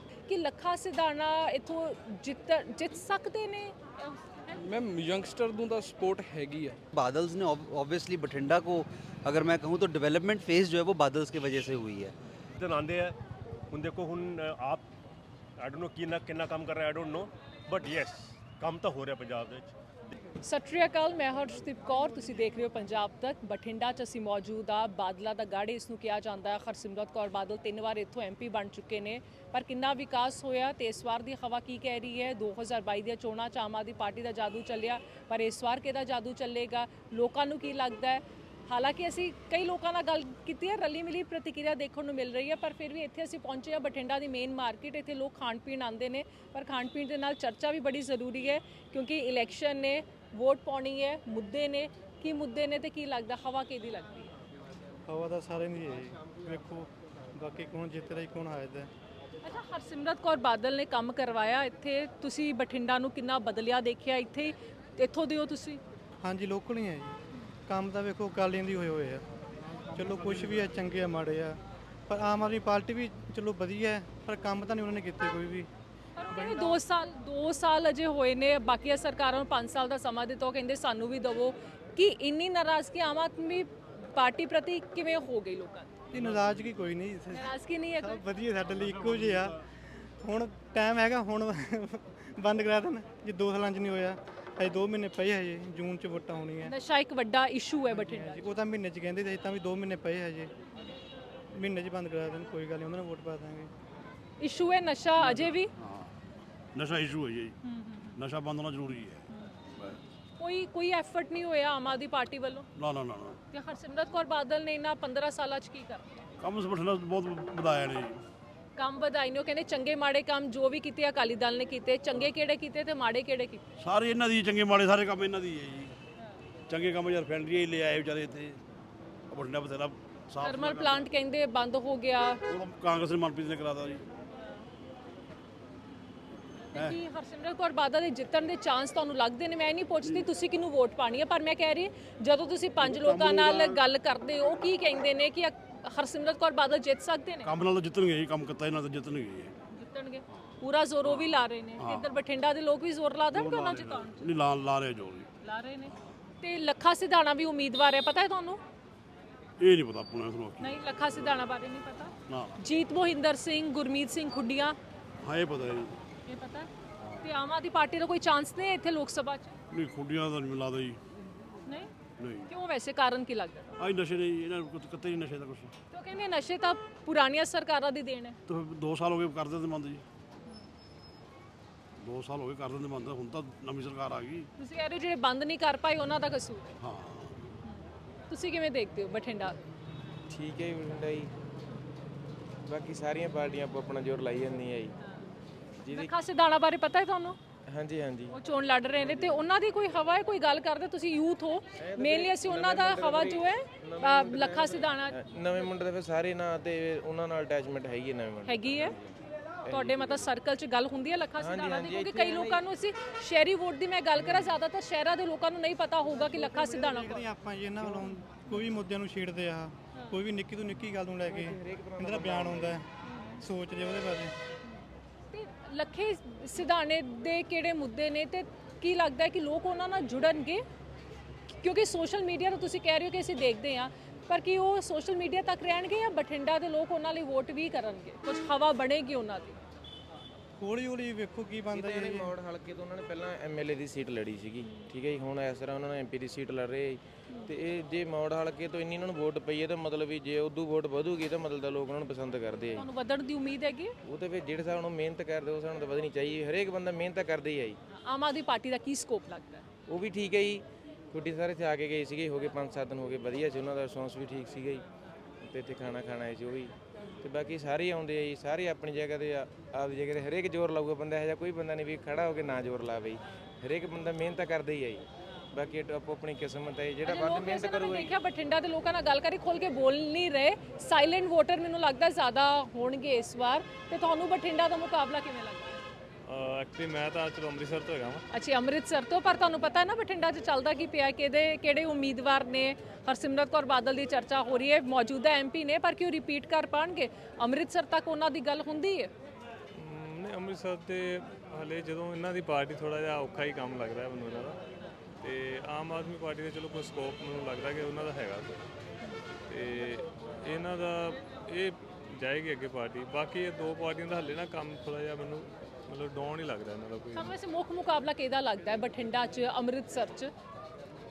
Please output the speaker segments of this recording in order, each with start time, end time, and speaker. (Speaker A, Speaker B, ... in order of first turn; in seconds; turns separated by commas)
Speaker A: 0.3-3.8, Speaker B: 4.5-6.8, Speaker C: 6.9-12.1, Speaker D: 12.6-13.2, Speaker D: 13.7-14.9, Speaker D: 15.6-20.2, Speaker A: 20.4-54.3, Speaker E: 55.0-58.9, Speaker A: 59.4-65.8, Speaker E: 66.2-67.2, Speaker E: 67.7-69.2, Speaker E: 69.9-75.7, Speaker A: 76.2-85.9, Speaker E: 76.3-76.8, Speaker E: 86.1-96.7, Speaker A: 87.3-88.2, Speaker A: 96.6-98.4, Speaker E: 97.9-100.5, Speaker E: 101.5-103.7, Speaker A: 104.4-105.7, Speaker F: 105.8-106.1, Speaker F: 106.8-107.6, Speaker F: 108.2-110.0, Speaker A: 110.4-112.7, Speaker F: 112.8-113.4, Speaker A: 113.5-116.2, Speaker F: 116.4-118.2, Speaker A: 118.8-123.6, Speaker F: 123.8-126.0, Speaker F: 126.7-128.6, Speaker F: 129.3-131.1, Speaker A: 130.4-132.4, Speaker F: 132.5-134.1, Speaker F: 136.8-137.0, Speaker A: 136.8-147.5, Speaker F: 142.8-143.8, Speaker F: 147.4-149.6, Speaker A: 149.7-154.3, Speaker F: 151.1-152.1, Speaker F: 153.3-155.3, Speaker A: 155.4-158.6, Speaker F: 159.6-161.4, Speaker A: 160.6-164.8, Speaker F: 162.3-162.6, Speaker F: 165.2-166.0, Speaker A: 166.3-166.7, Speaker A: 167.2-169.6, Speaker F: 169.7-171.0, Speaker F: 172.2-172.5, Speaker A: 172.5-173.8, Speaker F: 173.8-175.7, Speaker A: 175.9-178.4, Speaker F: 178.5-180.0, Speaker F: 182.0-184.5, Speaker A: 184.6-186.7, Speaker F: 186.8-187.5, Speaker A: 187.7-189.6, Speaker G: 190.3-191.3, Speaker G: 192.7-195.0, Speaker G: 195.8-196.1, Speaker A: 195.9-197.4, Speaker G: 197.7-198.4, Speaker A: 198.3-205.2, Speaker G: 199.0-199.4, Speaker G: 201.8-209.1, Speaker A: 208.5-209.0, Speaker G: 209.7-210.3, Speaker A: 209.7-217.2, Speaker G: 211.4-212.6, Speaker G: 214.2-214.5, Speaker E: 216.2-222.9, Speaker G: 221.2-222.7, Speaker E: 223.4-224.3, Speaker A: 225.3-230.6, Speaker A: 231.6-239.6, Speaker E: 240.6-242.4, Speaker G: 241.7-252.8, Speaker A: 252.8-253.9, Speaker G: 254.0-257.8, Speaker A: 258.0-259.6, Speaker G: 259.9-264.8, Speaker G: 265.4-278.1, Speaker A: 277.0-285.8, Speaker H: 286.2-288.2, Speaker A: 288.3-299.1, Speaker H: 299.8-304.6, Speaker H: 305.2-308.6, Speaker H: 309.5-317.3, Speaker A: 317.1-320.3